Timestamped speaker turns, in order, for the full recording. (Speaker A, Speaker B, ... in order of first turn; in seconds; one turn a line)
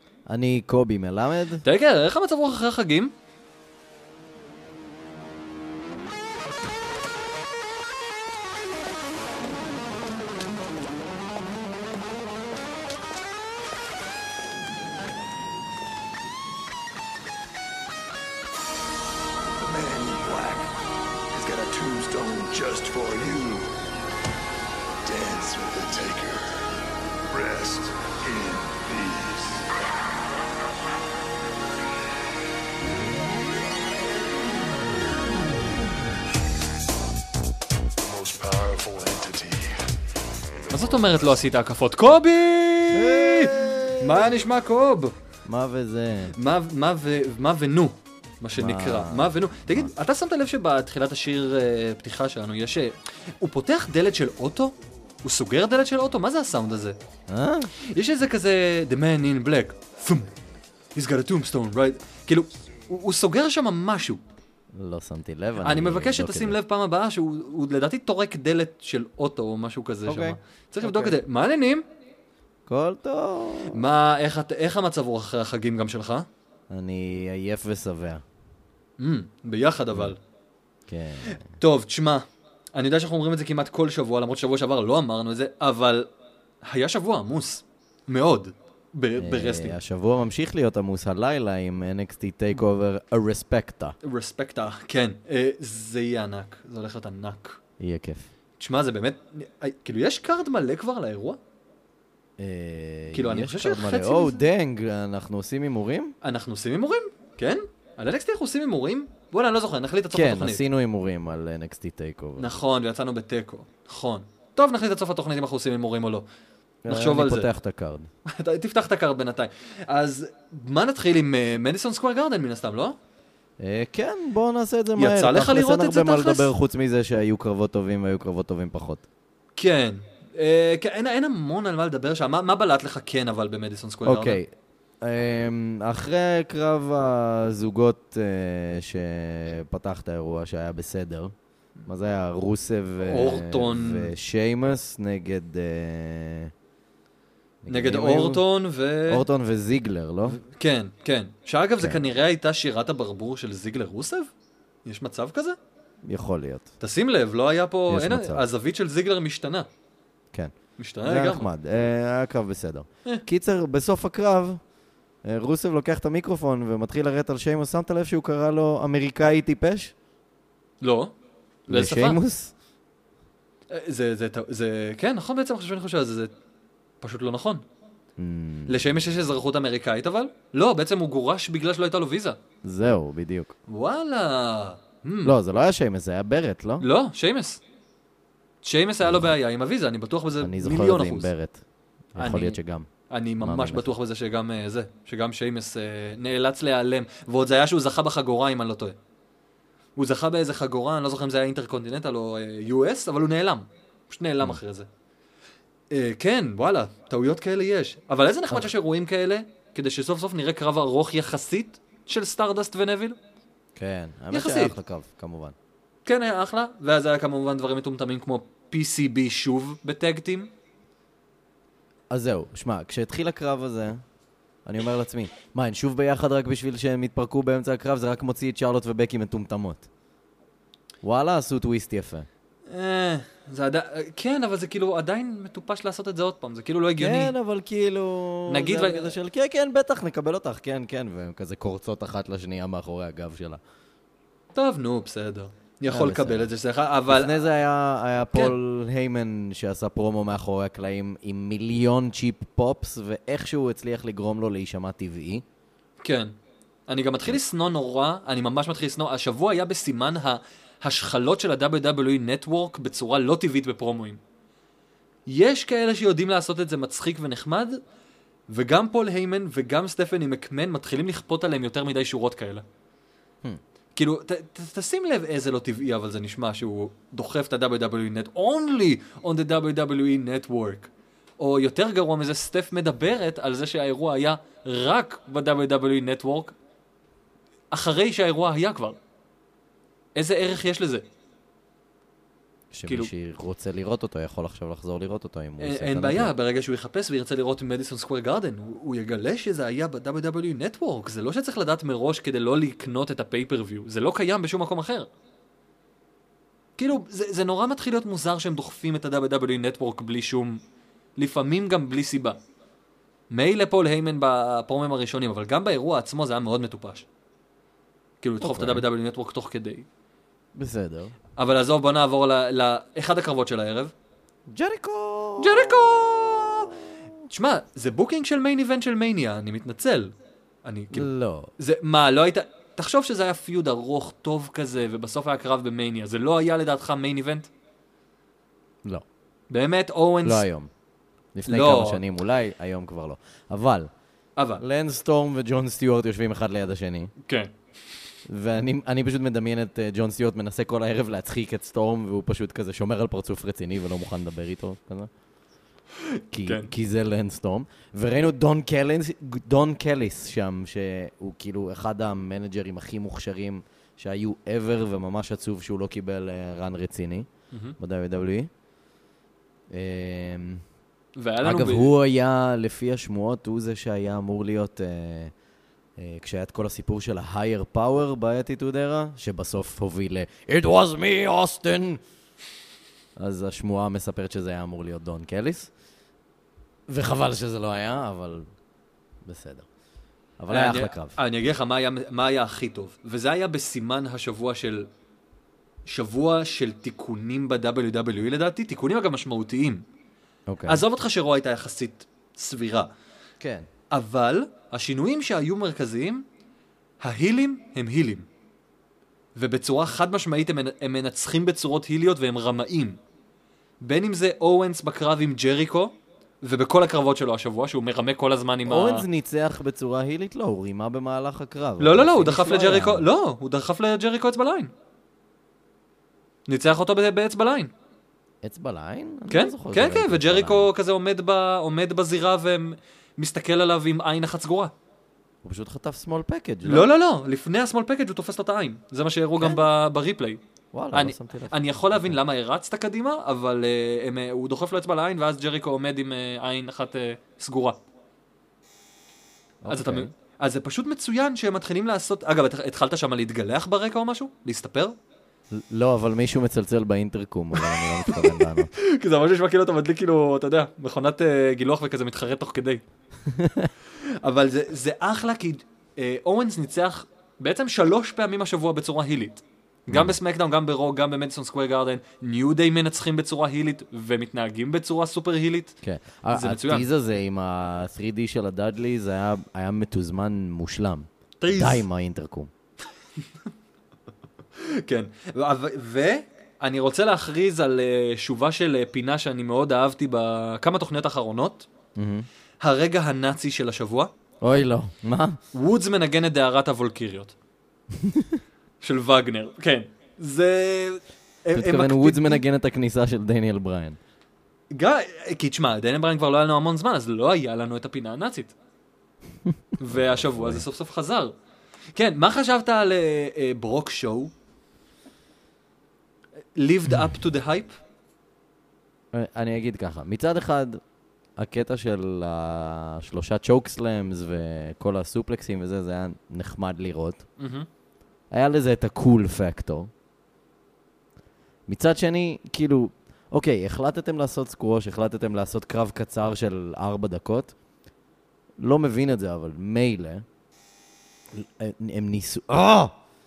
Speaker A: 0.3-1.6
Speaker B: 1.6-3.1
Speaker C: 19.6-20.7
Speaker C: 21.3-23.7
Speaker C: 25.0-26.6
Speaker C: 27.3-29.7
Speaker C: 38.0-39.8
Speaker C: 40.5-41.5
Speaker B: 40.7-45.1
Speaker A: 42.9-44.3
Speaker A: 45.5-46.3
Speaker B: 46.4-57.0
Speaker A: 48.5-49.9
Speaker A: 57.3-57.7
Speaker B: 57.9-60.3
Speaker B: 61.0-64.2
Speaker A: 64.8-66.6
Speaker B: 65.6-71.8
Speaker A: 70.0-71.2
Speaker A: 72.7-73.8
Speaker B: 73.7-76.3
Speaker A: 76.7-78.2
Speaker B: 79.0-80.2
Speaker A: 80.9-81.5
Speaker B: 81.3-86.1
Speaker B: 86.6-89.8
Speaker A: 89.2-94.0
Speaker B: 94.0-97.6
Speaker A: 97.8-98.3
Speaker B: 98.6-101.4
Speaker A: 102.4-106.2
Speaker B: 103.1-104.4
Speaker B: 106.2-110.6
Speaker A: 110.1-112.5
Speaker B: 112.4-116.2
Speaker A: 116.8-118.1
Speaker B: 116.9-117.5
Speaker B: 118.3-123.0
Speaker A: 123.6-129.0
Speaker B: 125.0-126.5
Speaker B: 129.6-134.4
Speaker A: 134.0-141.3
Speaker A: 141.9-146.5
Speaker B: 143.1-144.1
Speaker A: 147.6-148.4
Speaker B: 147.7-149.2
Speaker A: 149.1-150.4
Speaker B: 150.3-154.3
Speaker B: 154.8-155.6
Speaker A: 156.0-156.7
Speaker B: 156.8-159.7
Speaker A: 157.9-158.4
Speaker A: 160.3-164.6
Speaker B: 160.8-161.5
Speaker A: 165.2-169.9
Speaker B: 170.8-171.1
Speaker B: 171.7-172.2
Speaker A: 171.7-172.5
Speaker B: 173.7-176.3
Speaker B: 177.0-177.6
Speaker A: 178.2-179.1
Speaker B: 178.7-182.4
Speaker A: 182.6-183.5
Speaker B: 183.7-185.3
Speaker A: 185.2-186.8
Speaker B: 186.8-187.6
Speaker B: 188.6-191.3
Speaker A: 189.0-189.3
Speaker A: 190.4-191.6
Speaker A: 192.2-192.9
Speaker B: 192.2-192.6
Speaker B: 193.1-198.9
Speaker A: 193.4-193.9
Speaker B: 199.9-204.9
Speaker B: 205.9-213.2
Speaker A: 213.7-215.5
Speaker B: 214.3-214.7
Speaker B: 216.0-220.5
Speaker A: 222.1-224.0
Speaker A: 224.6-229.9
Speaker A: 231.0-232.3
Speaker B: 232.7-237.3
Speaker A: 237.0-243.6
Speaker B: 238.5-239.1
Speaker B: 244.5-247.3
Speaker A: 245.9-246.5
Speaker A: 247.1-255.4
Speaker B: 256.0-256.3
Speaker B: 256.9-264.2
Speaker B: 265.3-267.8
Speaker B: 268.5-272.6
Speaker B: 273.9-286.5
Speaker B: 287.7-289.0
Speaker B: 290.1-291.0
Speaker A: 292.7-296.3
Speaker B: 295.6-305.1
Speaker B: 306.8-310.6
Speaker B: 311.2-312.4
Speaker B: 313.3-317.1
Speaker B: 318.2-319.9
Speaker A: 318.4-318.8
Speaker A: 320.6-321.1
Speaker B: 321.4-323.9
Speaker A: 324.5-327.1
Speaker B: 325.4-326.7
Speaker B: 327.3-330.1
Speaker B: 330.6-337.5
Speaker A: 330.9-331.5
Speaker B: 339.5-340.5
Speaker A: 340.2-340.7
Speaker A: 341.3-343.9
Speaker B: 341.5-342.0
Speaker B: 344.4-344.6
Speaker A: 344.6-347.1
Speaker B: 347.2-347.5
Speaker A: 348.3-355.1
Speaker A: 356.3-368.5
Speaker B: 356.4-356.7
Speaker A: 369.7-370.6
Speaker B: 371.2-371.9
Speaker A: 371.4-375.3
Speaker A: 376.0-382.0
Speaker A: 383.2-385.7
Speaker A: 386.9-388.5
Speaker A: 389.2-389.7
Speaker A: 390.4-391.2
Speaker B: 390.5-394.9
Speaker B: 395.9-399.8
Speaker A: 400.5-400.8
Speaker B: 400.7-402.9
Speaker A: 403.4-403.7
Speaker B: 403.9-406.2
Speaker B: 407.0-408.2
Speaker B: 409.4-413.0
Speaker B: 413.8-419.0
Speaker A: 418.6-423.1
Speaker B: 421.8-424.7
Speaker B: 426.5-427.7
Speaker A: 428.4-430.7
Speaker B: 429.3-434.7
Speaker A: 435.4-436.9
Speaker B: 436.6-440.4
Speaker A: 439.4-439.6
Speaker A: 440.7-442.2
Speaker B: 440.9-447.8
Speaker A: 449.6-450.1
Speaker B: 449.7-455.0
Speaker A: 455.5-458.7
Speaker B: 457.6-462.8
Speaker A: 463.2-463.7
Speaker B: 464.2-475.8
Speaker A: 469.9-470.2
Speaker A: 475.8-482.5
Speaker B: 476.3-476.9
Speaker B: 481.4-481.8
Speaker B: 484.6-491.7
Speaker A: 491.9-492.3
Speaker B: 492.6-494.1
Speaker A: 494.4-495.4
Speaker B: 495.5-497.3
Speaker A: 497.9-498.4
Speaker B: 498.8-502.4
Speaker A: 501.5-504.0
Speaker B: 504.7-508.5
Speaker A: 509.4-510.6
Speaker B: 509.8-511.3
Speaker B: 511.9-514.3
Speaker B: 516.5-517.8
Speaker A: 519.1-520.8
Speaker A: 521.4-527.2
Speaker B: 527.4-527.7
Speaker A: 528.3-529.9
Speaker A: 531.7-537.5
Speaker A: 538.6-540.2
Speaker A: 541.3-542.9